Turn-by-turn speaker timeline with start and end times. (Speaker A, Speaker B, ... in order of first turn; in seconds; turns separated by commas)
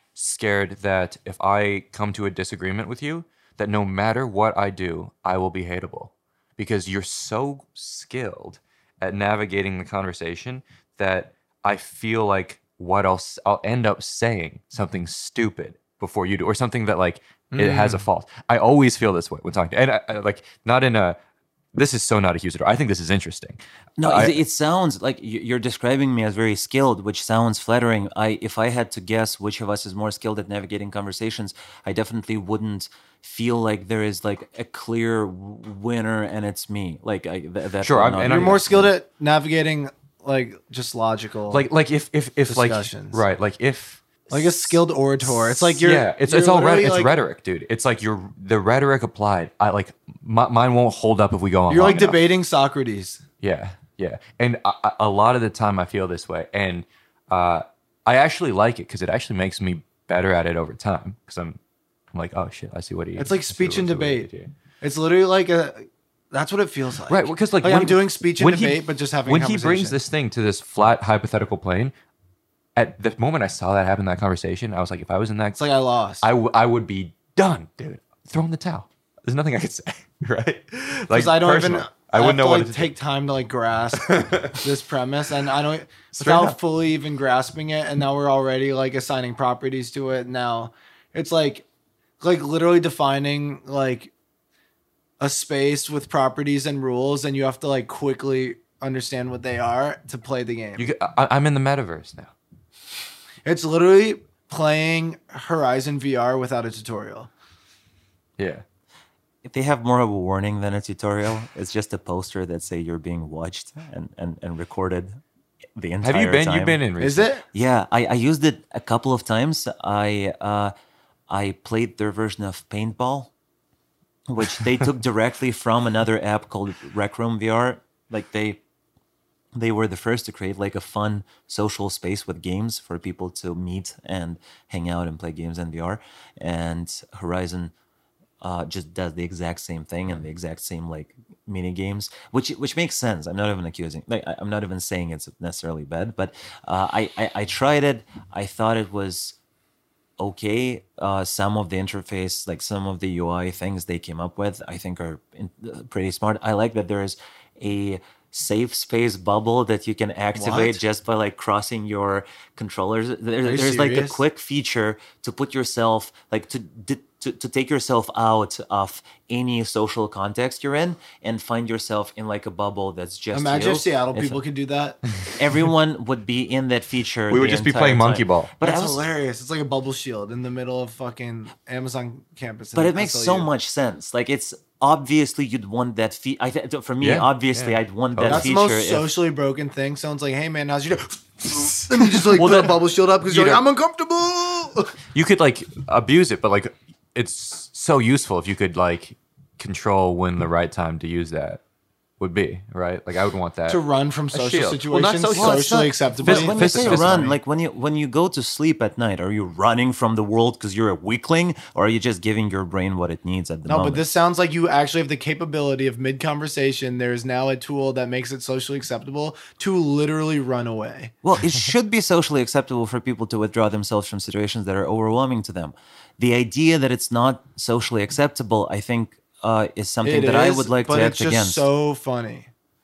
Speaker A: 0.1-21.1, Speaker B: 17.5-18.0, Speaker A: 21.7-24.4, Speaker C: 24.0-38.9, Speaker A: 37.8-38.7, Speaker B: 38.2-41.6, Speaker A: 41.5-44.7, Speaker B: 42.5-43.2, Speaker B: 44.3-47.1, Speaker A: 45.2-52.2, Speaker B: 51.7-53.2, Speaker A: 53.4-61.6, Speaker A: 62.1-64.5, Speaker B: 63.2-64.3, Speaker B: 64.8-70.0, Speaker A: 67.1-71.9, Speaker A: 72.8-75.6, Speaker B: 75.5-76.3, Speaker A: 76.2-82.9, Speaker B: 81.1-91.6, Speaker A: 83.9-84.7, Speaker A: 86.2-86.5, Speaker B: 92.2-94.1, Speaker B: 95.2-100.9, Speaker A: 100.8-102.3, Speaker B: 103.4-107.3, Speaker A: 108.4-108.6, Speaker C: 109.4-115.2, Speaker C: 115.8-116.8, Speaker A: 116.0-117.3, Speaker B: 117.0-117.4, Speaker C: 117.5-120.7, Speaker C: 121.3-123.3, Speaker C: 124.3-128.6, Speaker C: 129.5-137.7, Speaker C: 138.4-149.3, Speaker C: 150.2-174.4, Speaker B: 160.3-160.8, Speaker B: 163.4-164.2, Speaker B: 173.3-175.0, Speaker C: 175.3-179.0, Speaker A: 177.3-178.5, Speaker B: 178.6-183.5, Speaker C: 182.7-189.1, Speaker A: 187.0-188.4, Speaker B: 188.3-194.9, Speaker A: 192.2-193.6, Speaker A: 195.1-201.6, Speaker A: 202.2-207.4, Speaker B: 203.7-207.3, Speaker C: 205.3-214.0, Speaker B: 213.7-221.2, Speaker C: 221.2-231.7, Speaker B: 230.0-232.5